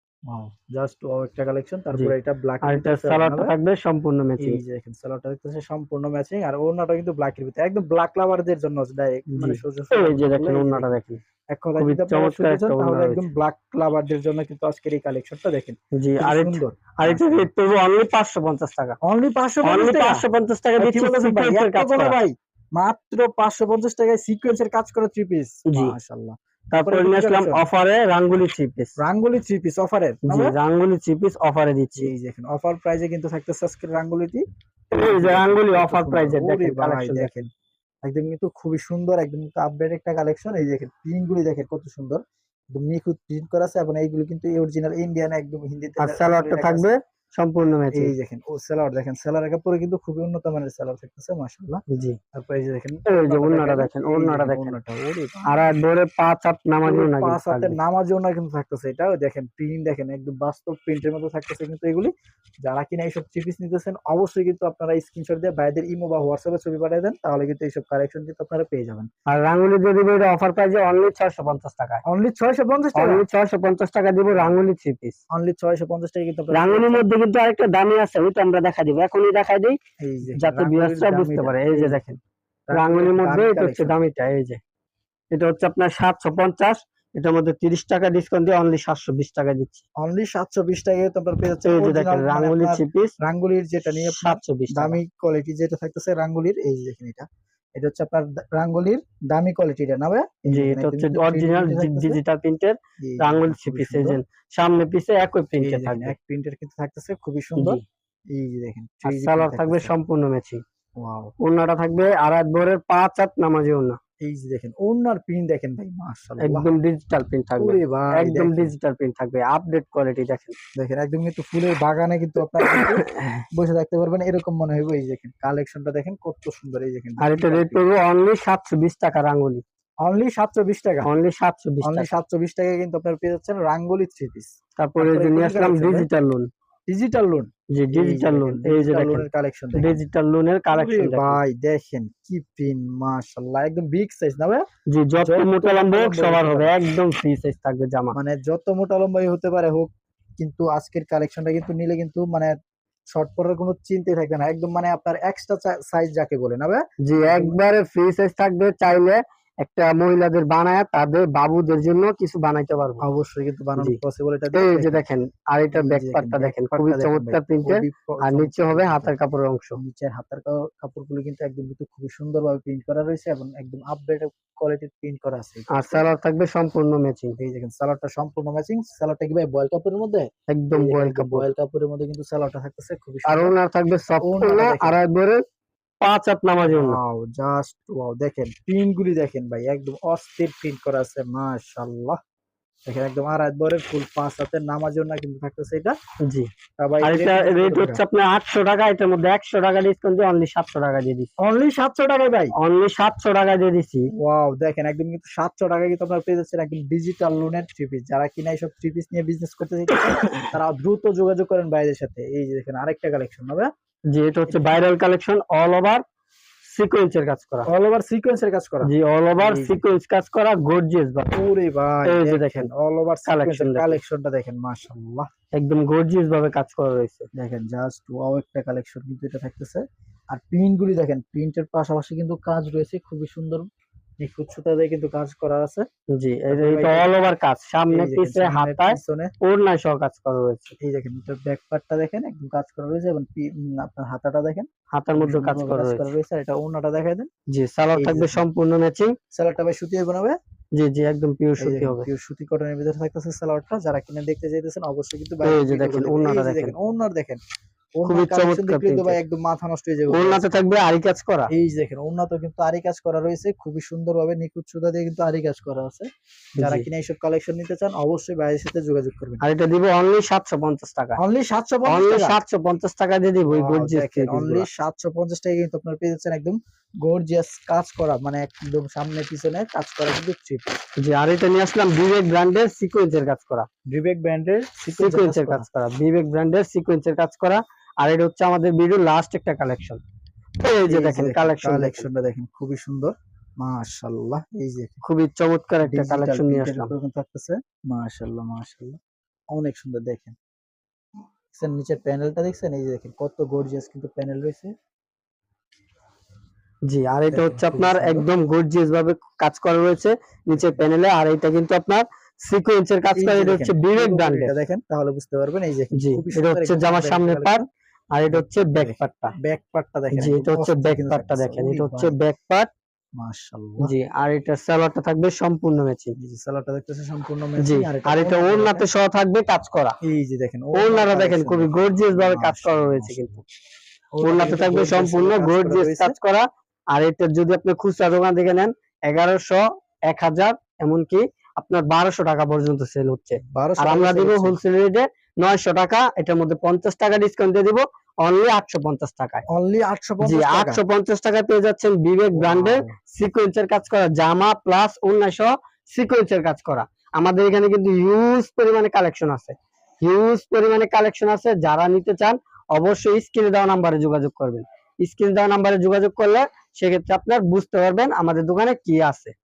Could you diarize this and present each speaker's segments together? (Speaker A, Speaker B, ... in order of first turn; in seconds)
Speaker A: 0.3-3.5, 4.4-10.9, 11.5-17.5, 19.0-20.2, 20.8-27.6, 29.0-30.6, 32.0-37.5, 38.0-42.2, 42.7-46.9, 48.0-51.8, 52.3-55.6, 56.9-62.1, 62.6-69.1, 72.1-73.2, 74.3-74.6, 75.3-77.1, 80.0-82.0, 82.7-84.0, 90.0-97.3, 97.8-102.2, 103.0-104.2, 105.6-107.8, 108.3-109.9, 111.0-111.3, 114.2-116.7, 117.6-118.7, 120.8-127.8, 130.0-131.1, 131.8-136.1, 136.9-140.0, 140.7-144.7, 145.2-146.7, 148.1-152.5, 153.1-157.6, 163.0-165.0, 165.7-169.1, 169.8-176.0, 177.4-183.5, 184.2-185.0, 186.6-192.2, 192.9-196.0, 196.8-198.0, 201.4-202.5, 204.2-213.7, 214.5-214.8, 217.7-219.8, 221.3-225.3, 227.4-233.7, 234.2-235.9, 236.5-237.1, 237.9-239.3, 240.8-247.3, 247.9-248.4, 249.3-250.4, 251.6-257.4, 258.0-260.6, 261.5-266.1, 266.6-269.4, 271.2-272.4, 273.5-280.8, 283.9-285.7, 290.8-295.0, 295.8-299.0, 299.5-300.4, 301.5-304.7, 307.3-308.3, 310.5-310.9, 313.1-317.6, 318.3-322.2, 323.2-323.9, 326.2-328.9, 330.1-333.4, 334.2-336.1, 343.4-344.6, 349.5-350.8, 352.4-352.9
Speaker B: 2.6-4.6, 9.3-11.2, 11.8-13.3, 15.9-19.0, 19.6-22.2, 25.7-25.9, 26.7-28.9, 30.2-32.1, 34.9-37.3, 46.0-48.1, 51.9-52.2, 53.1-54.8, 55.5-57.8, 69.3-72.0, 73.0-75.2, 76.5-79.8, 80.4-82.2, 82.7-84.6, 85.3-89.8, 91.6-93.1, 94.1-95.0, 100.5-106.1, 109.0-110.6, 111.4-114.0, 116.4-120.6, 122.6-123.4, 127.2-129.6, 131.0-132.1, 134.8-136.5, 137.7-141.4, 144.9-148.2, 157.1-163.0, 164.5-169.8, 175.7-177.4, 180.5-181.5, 183.3-185.4, 186.0-187.0, 196.2-196.5, 197.0-201.3, 202.6-204.1, 209.9-210.5, 214.1-216.0, 216.7-217.7, 218.8-221.4, 222.1-222.7, 223.3-224.0, 225.6-227.3, 236.1-240.8, 244.9-246.1, 247.5-249.1, 250.8-252.1, 255.4-256.8, 258.1-259.2, 260.1-261.5, 266.6-266.9, 269.4-271.2, 271.9-274.7, 281.0-283.7, 285.0-290.0, 290.6-292.1, 295.0-296.9, 306.9-314.5, 316.0-317.6, 318.1-319.3, 320.1-322.7, 323.8-326.1, 327.6-330.0, 330.8-333.4, 334.2-349.4, 350.2-369.3